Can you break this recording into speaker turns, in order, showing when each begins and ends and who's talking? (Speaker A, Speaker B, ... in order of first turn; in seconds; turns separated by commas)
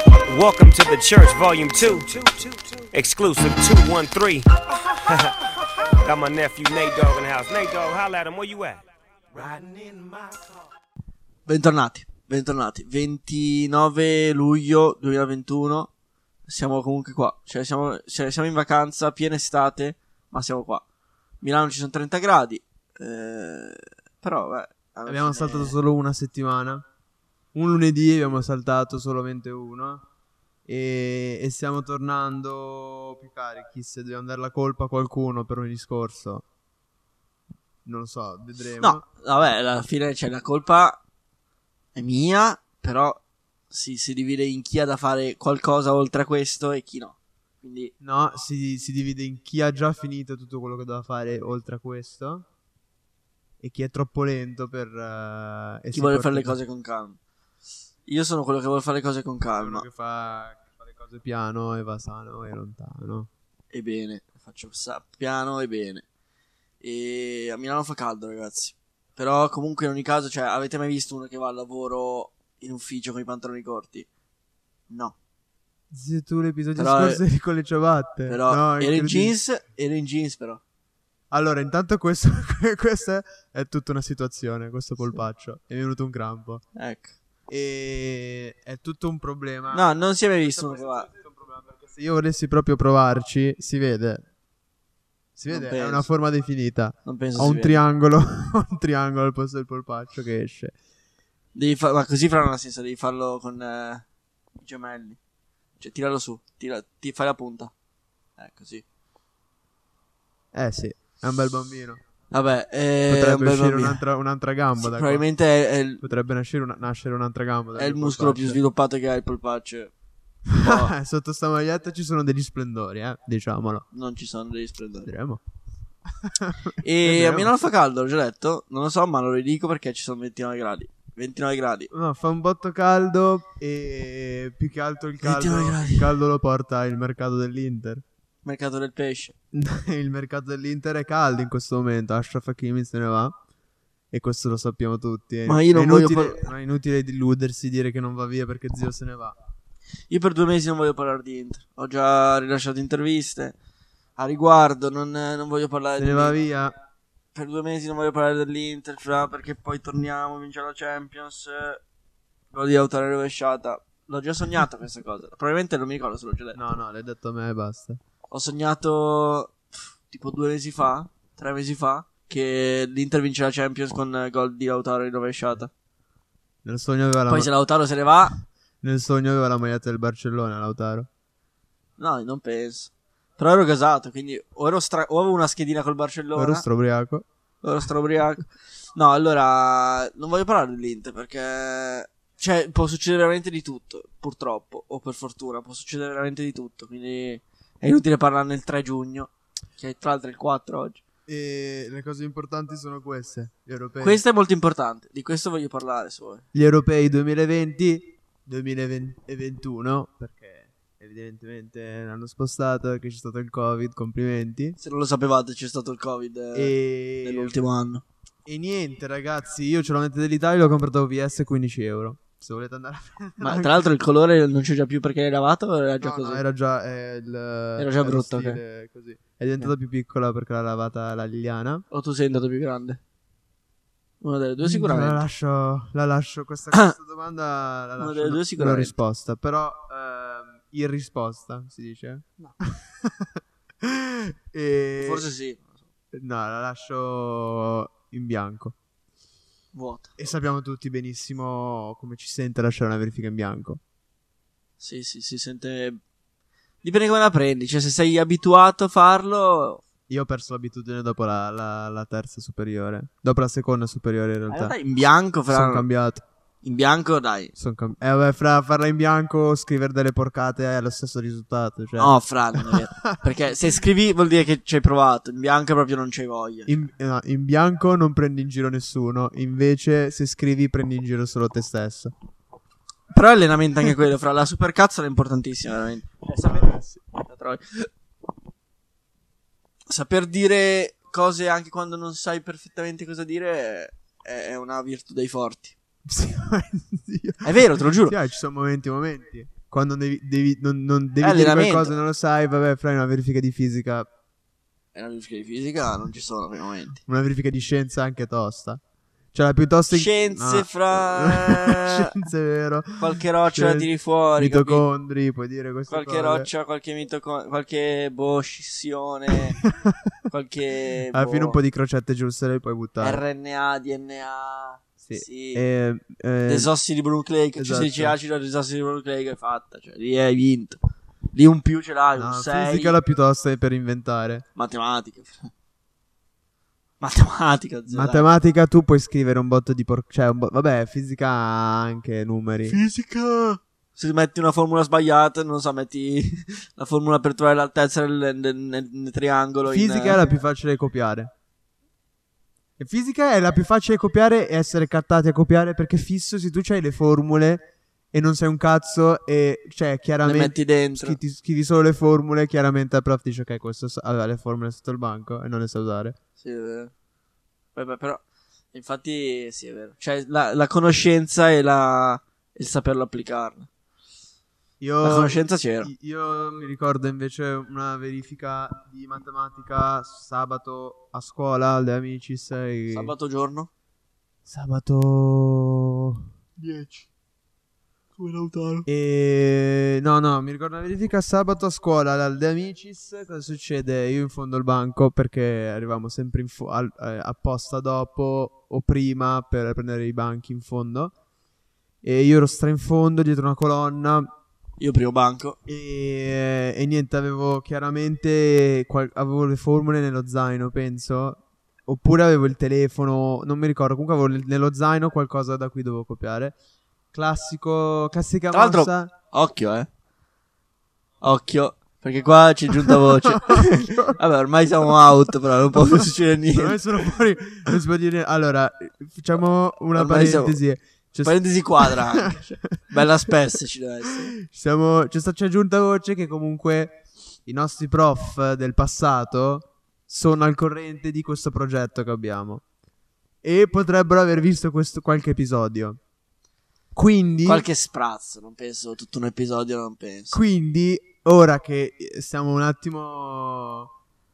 Speaker A: 0.2-10.5, Speaker B: 11.5-15.9, Speaker B: 16.5-20.8, Speaker B: 21.4-25.8, Speaker C: 25.1-26.8, Speaker C: 27.5-30.0, Speaker C: 30.7-36.4, Speaker C: 37.9-39.0, Speaker B: 38.8-41.0, Speaker B: 41.9-43.2, Speaker B: 43.7-47.9, Speaker C: 48.0-52.5, Speaker C: 53.6-56.5, Speaker B: 55.9-57.2, Speaker B: 58.0-59.9, Speaker C: 59.6-63.3, Speaker B: 63.7-66.0, Speaker B: 66.8-74.1, Speaker B: 74.9-75.1, Speaker C: 75.9-79.3, Speaker B: 76.8-77.2, Speaker B: 78.3-80.6, Speaker C: 81.3-86.6, Speaker B: 86.8-87.1, Speaker C: 87.5-89.9, Speaker B: 89.7-91.1, Speaker C: 90.4-94.2, Speaker C: 95.4-100.7, Speaker B: 95.5-96.1, Speaker B: 97.0-97.8, Speaker B: 101.5-104.0, Speaker B: 104.6-105.2, Speaker B: 105.8-107.7, Speaker B: 108.4-108.8, Speaker C: 110.5-112.0, Speaker B: 112.3-114.0, Speaker C: 113.1-115.2, Speaker B: 114.8-116.0, Speaker C: 116.0-118.6, Speaker B: 117.8-119.9, Speaker C: 120.5-123.8, Speaker B: 120.5-120.9, Speaker B: 123.9-125.1, Speaker C: 125.0-125.4, Speaker C: 126.2-127.5, Speaker B: 126.8-131.9, Speaker C: 131.9-138.0, Speaker B: 135.2-136.1, Speaker B: 138.4-139.3, Speaker C: 139.5-143.3, Speaker C: 144.1-149.3, Speaker B: 145.4-146.5, Speaker B: 150.1-153.6, Speaker B: 154.2-156.4, Speaker C: 156.0-156.7, Speaker B: 157.3-161.8, Speaker B: 162.5-166.6, Speaker C: 166.5-168.0, Speaker B: 168.3-175.7, Speaker C: 176.6-177.5, Speaker B: 177.3-178.3, Speaker C: 178.8-181.1, Speaker B: 182.0-186.6, Speaker C: 186.3-187.2, Speaker B: 187.6-201.0, Speaker C: 201.3-204.2, Speaker B: 204.0-206.4, Speaker C: 206.5-214.8, Speaker B: 214.8-218.0, Speaker C: 216.5-217.6, Speaker C: 218.4-223.8, Speaker B: 223.4-226.4, Speaker C: 226.0-231.8, Speaker B: 227.8-228.6, Speaker B: 231.9-233.0, Speaker B: 234.2-235.2, Speaker C: 234.6-245.2, Speaker B: 238.0-238.9, Speaker B: 245.0-245.7, Speaker C: 246.1-248.7, Speaker B: 249.7-250.1, Speaker C: 250.2-253.8, Speaker B: 254.8-256.0, Speaker B: 256.8-259.8, Speaker C: 260.1-264.7, Speaker B: 264.5-265.9, Speaker C: 265.5-266.2, Speaker B: 266.6-267.5, Speaker C: 267.6-273.2, Speaker B: 272.0-276.8, Speaker C: 276.7-282.1, Speaker B: 283.1-287.9, Speaker C: 286.4-287.0, Speaker B: 289.9-295.7, Speaker C: 296.1-304.1, Speaker B: 297.4-298.1, Speaker B: 301.2-301.9, Speaker B: 304.9-307.0, Speaker C: 307.1-308.8, Speaker C: 309.3-316.5, Speaker B: 309.9-312.2, Speaker B: 313.0-314.8, Speaker B: 315.9-319.6, Speaker C: 319.3-320.1, Speaker B: 320.3-321.6, Speaker C: 321.1-323.2, Speaker B: 323.0-325.6, Speaker C: 325.0-326.7, Speaker B: 326.5-330.8, Speaker C: 327.6-328.1, Speaker B: 331.3-332.9, Speaker C: 332.2-334.4, Speaker B: 334.6-335.5, Speaker B: 337.0-338.2, Speaker C: 337.9-342.8, Speaker B: 342.6-350.2, Speaker C: 349.6-351.3, Speaker C: 352.8-366.1, Speaker B: 360.2-361.2, Speaker B: 366.4-366.9, Speaker B: 367.8-368.2, Speaker B: 368.7-373.7, Speaker C: 374.8-383.1, Speaker B: 375.0-375.9, Speaker B: 382.9-383.7, Speaker C: 384.4-386.2, Speaker B: 386.6-387.1, Speaker B: 388.2-388.9, Speaker C: 388.9-401.1, Speaker C: 402.0-404.3, Speaker B: 404.8-405.6, Speaker C: 405.6-416.5, Speaker C: 417.1-419.1, Speaker B: 418.5-419.9, Speaker B: 421.2-426.8, Speaker C: 422.8-424.2, Speaker C: 425.7-432.8, Speaker B: 429.9-430.6, Speaker B: 431.2-434.3, Speaker C: 434.4-442.6, Speaker C: 443.4-446.0, Speaker C: 446.9-447.6, Speaker B: 447.4-450.4, Speaker C: 450.3-453.9